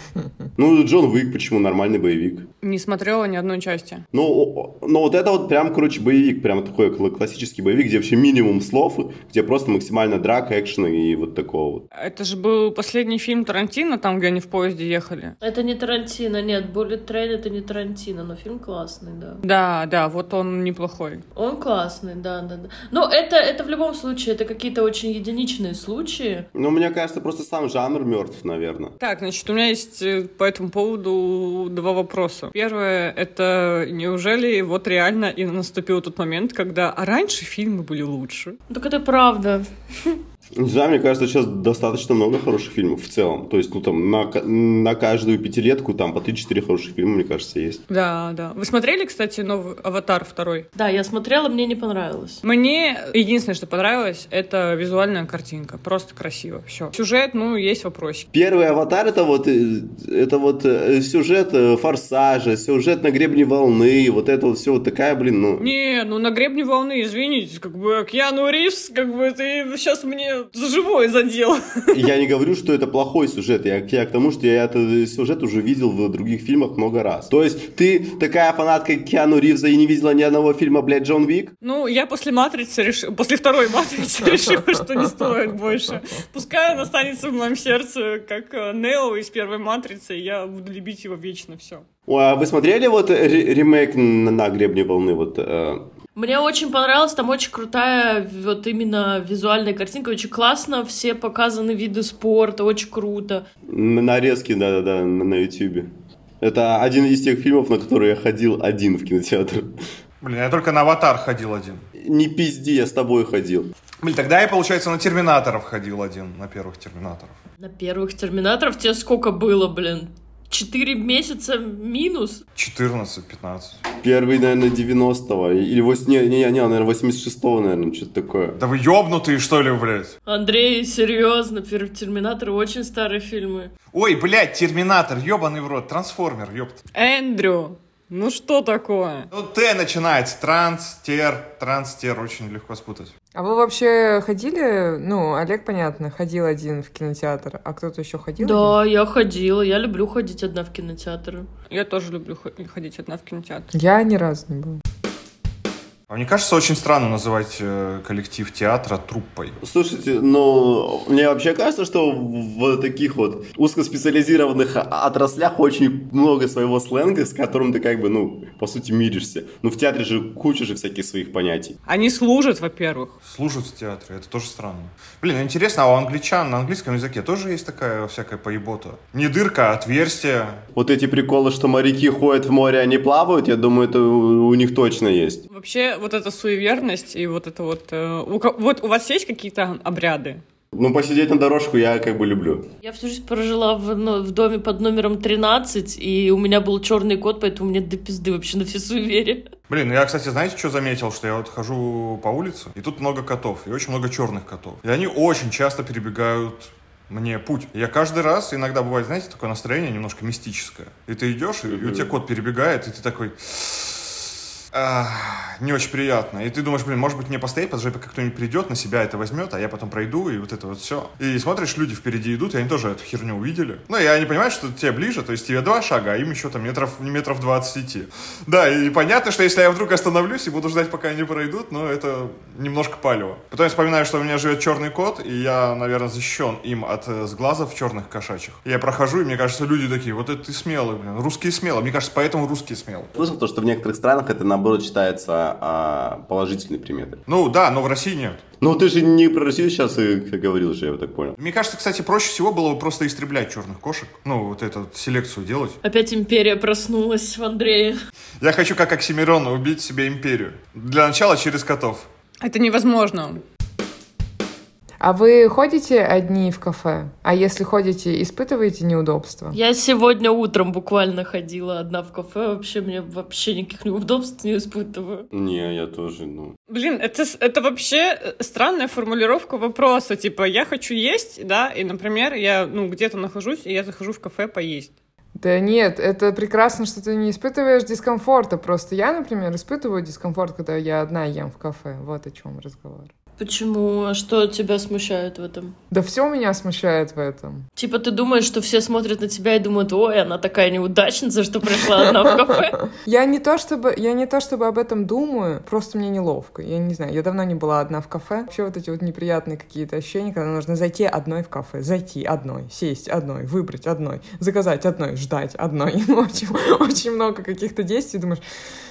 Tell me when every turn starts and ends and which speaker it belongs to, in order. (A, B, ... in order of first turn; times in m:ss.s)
0:00.6-0:02.5 A
0:02.6-0:04.0 B
0:04.1-0:11.9 A
0:11.9-0:15.4 B
0:15.4-0:19.4 C
0:19.4-0:21.2 B
0:21.4-0:26.5 C
0:26.6-0:28.9 A
0:29.0-0:38.6 B
0:38.7-0:40.2 C
0:40.6-0:47.8 A
0:47.9-0:50.7 B
0:50.8-0:52.4 C
0:52.4-0:58.3 B
0:58.3-1:05.7 A
1:05.6-1:12.0 B
1:11.9-1:21.5 A
1:21.6-1:31.8 B
1:32.1-1:35.8 A
1:36.2-1:43.4 C
1:43.7-1:45.9 A
1:46.4-1:49.7 A
1:50.2-1:51.8 D
1:52.0-1:53.7 A
1:54.0-1:57.4 D
1:57.6-2:02.4 C
2:02.6-2:03.8 D
2:03.9-2:08.6 A
2:08.6-2:10.2 D
2:10.3-2:13.7 C
2:13.9-2:16.8 D
2:16.9-2:19.3 B
2:19.3-2:23.1 D
2:23.3-2:28.8 E
2:28.4-2:31.5 C
2:31.7-2:33.7 B
2:33.7-2:34.8 E
2:36.1-2:39.6 D
2:39.6-2:51.8 A
2:51.9-2:53.1 B
2:53.2-3:00.6 D
3:00.8-3:05.4 A
3:05.5-3:10.4 B
3:10.7-3:12.7 A
3:12.8-3:19.4 C
3:19.7-3:34.2 D
3:31.7-3:32.1 A
3:34.7-4:03.1 D
4:03.2-4:07.2 A
4:07.3-4:08.4 D
4:08.6-4:11.4 A
4:11.4-4:15.8 D
4:15.8-4:18.0 C
4:18.4-4:22.1 D
4:22.4-4:23.4 B
4:25.0-4:29.6 E
4:29.5-4:35.3 C
4:35.3-4:36.6 A
4:36.7-4:44.9 B
4:45.4-4:53.1 E
4:53.4-4:55.8 C
4:55.9-4:57.6 E
4:57.8-5:02.8 C
5:03.0-5:18.4 E